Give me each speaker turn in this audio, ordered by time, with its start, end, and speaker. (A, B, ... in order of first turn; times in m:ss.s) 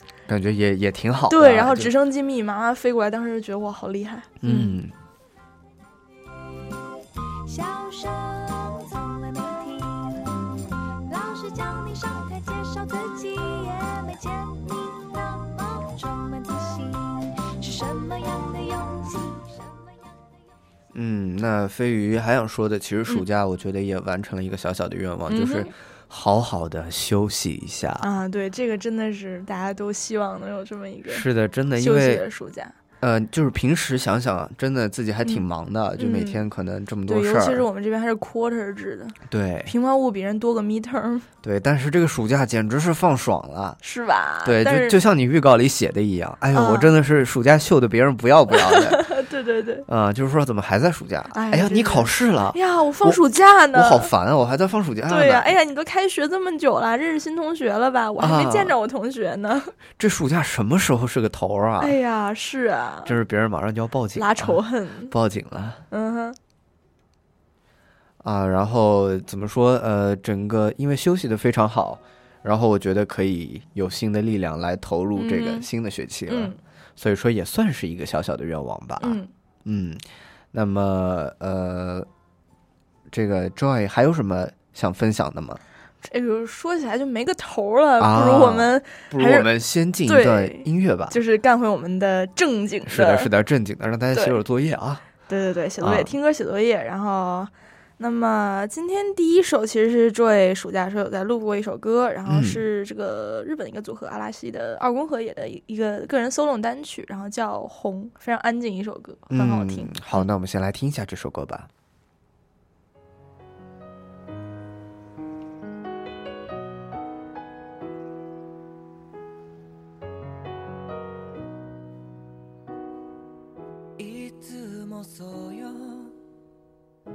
0:00.3-0:01.9 A
0:01.3-0:04.8 B
0:04.4-0:04.9 A
0:07.4-0:10.3 C
0:11.0-0:19.9 C
0:20.9-0:28.1 A
0:25.3-0:25.7 B
0:28.0-0:31.2 B
0:31.1-0:32.2 A
0:31.8-0:32.7 B
0:33.0-0:37.6 A
0:36.0-0:36.4 B
0:37.1-0:41.2 B
0:39.3-0:39.7 A
0:41.4-0:43.8 A
0:43.8-0:45.0 B
0:44.4-0:49.0 A
0:46.5-0:46.9 B
0:48.5-0:49.8 B
0:49.9-0:53.2 A
0:51.3-0:54.1 B
0:53.7-0:55.6 A
0:55.1-0:59.7 B
0:58.2-0:58.8 A
1:00.0-1:02.0 A
1:01.8-1:03.1 B
1:03.0-1:05.8 A
1:04.2-1:05.1 B
1:05.9-1:06.4 B
1:08.2-1:22.1 A
1:15.2-1:15.7 B
1:16.3-1:16.6 B
1:19.0-1:19.3 B
1:23.1-1:25.6 A
1:26.0-1:29.5 B
1:28.0-1:31.2 A
1:30.1-1:33.3 B
1:32.9-1:35.0 A
1:35.3-1:50.2 B
1:35.8-1:36.1 A
1:42.2-1:42.6 A
1:49.3-1:51.7 A
2:04.0-2:06.1 D